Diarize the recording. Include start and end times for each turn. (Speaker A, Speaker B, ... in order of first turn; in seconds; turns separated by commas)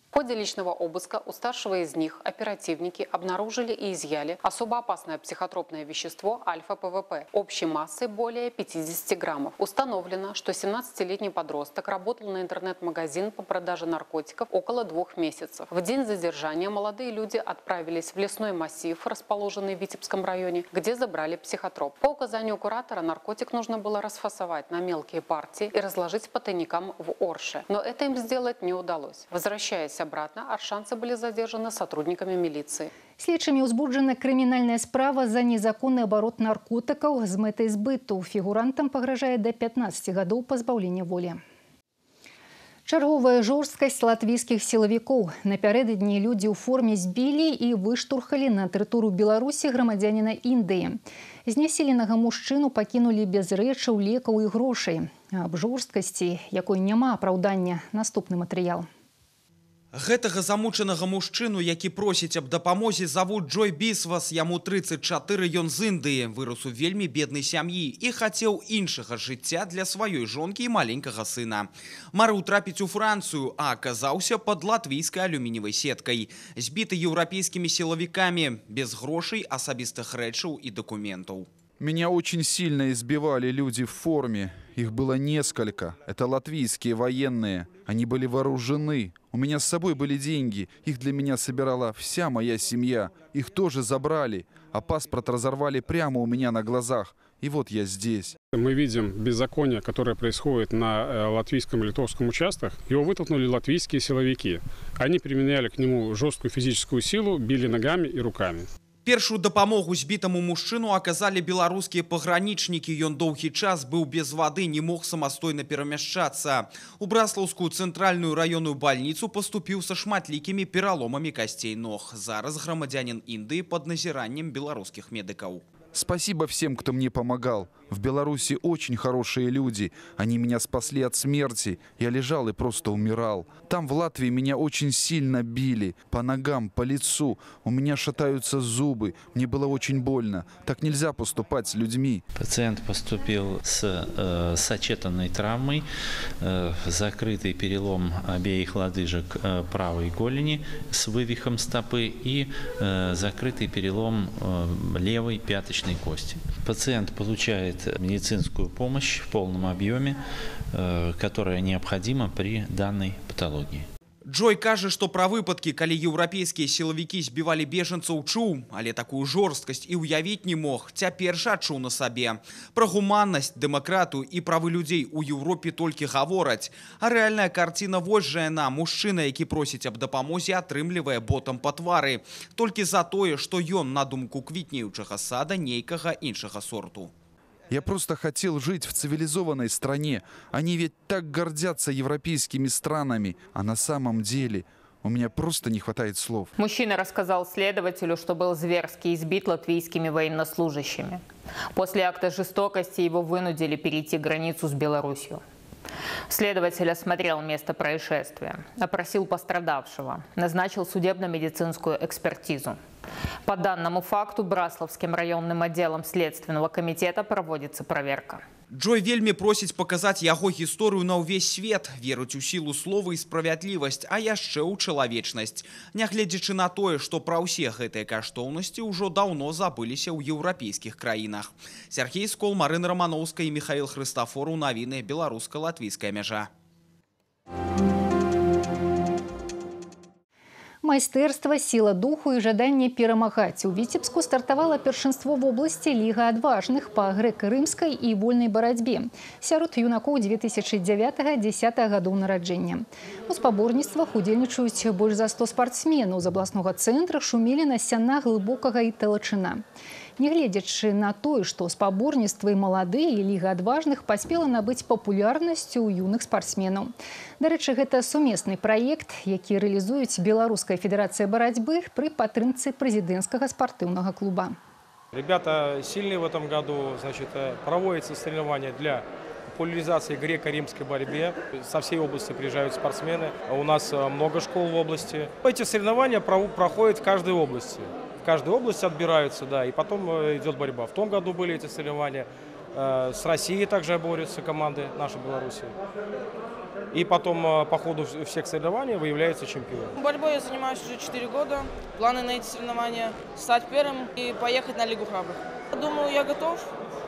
Speaker A: 0.1-32.9, Speaker B: 33.2-41.4, Speaker B: 42.9-58.9, Speaker C: 59.9-81.5, Speaker D: 81.8-98.4, Speaker E: 100.8-101.9, Speaker E: 105.2-105.7, Speaker E: 107.4-108.6, Speaker C: 109.0-125.6, Speaker D: 125.9-142.2, Speaker F: 142.4-145.9, Speaker F: 146.4-160.2, Speaker F: 160.7-163.9, Speaker C: 164.3-187.1, Speaker D: 187.7-196.5, Speaker G: 196.6-201.2, Speaker G: 201.7-205.4, Speaker G: 206.3-212.8, Speaker G: 213.4-218.4, Speaker C: 218.7-236.5, Speaker B: 240.8-259.6, Speaker B: 260.2-274.6, Speaker H: 275.2-279.0, Speaker H: 279.6-292.3, Speaker H: 292.8-295.7, Speaker H: 296.9-299.8, Speaker I: 300.0-306.7